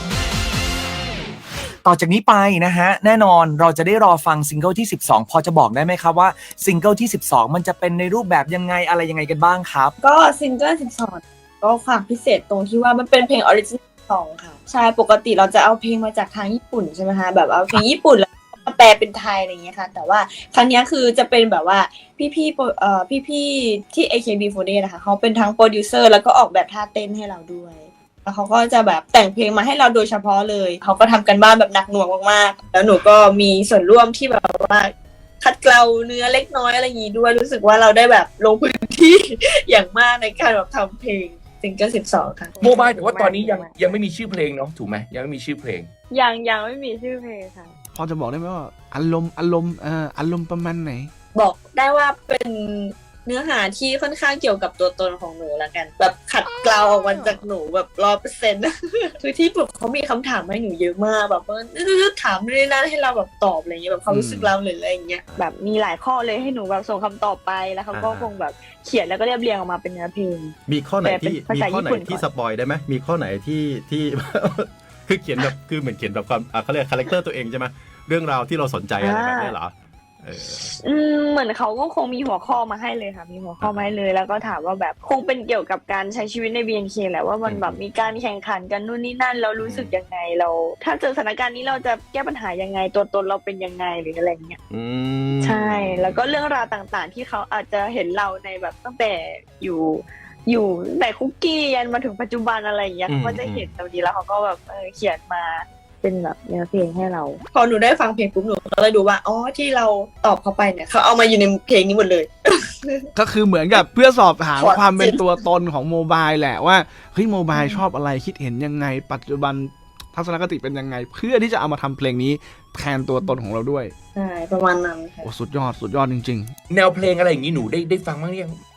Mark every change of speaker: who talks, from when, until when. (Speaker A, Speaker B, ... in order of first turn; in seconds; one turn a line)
Speaker A: 1.8-9.9
Speaker B: 10.0-42.5
Speaker C: 42.5-44.0
Speaker D: 42.6-45.9
Speaker C: 46.1-47.8
Speaker E: 48.0-51.1
Speaker B: 51.4-65.2
Speaker C: 65.4-72.2
Speaker F: 67.9-68.3
Speaker F: 70.7-80.7
Speaker C: 79.0-79.5
Speaker C: 80.5-94.6
Speaker F: 83.6-84.0
Speaker F: 87.5-87.8
Speaker F: 89.6-90.0
Speaker F: 94.7-96.2
Speaker C: 95.4-107.4
Speaker F: 103.1-103.7
Speaker B: 107.5-113.1
Speaker E: 113.2-123.9
Speaker B: 114.6-115.3
Speaker B: 117.5-117.8
Speaker B: 124.2-125.2
Speaker E: 125.3-126.5
Speaker D: 126.7-128.5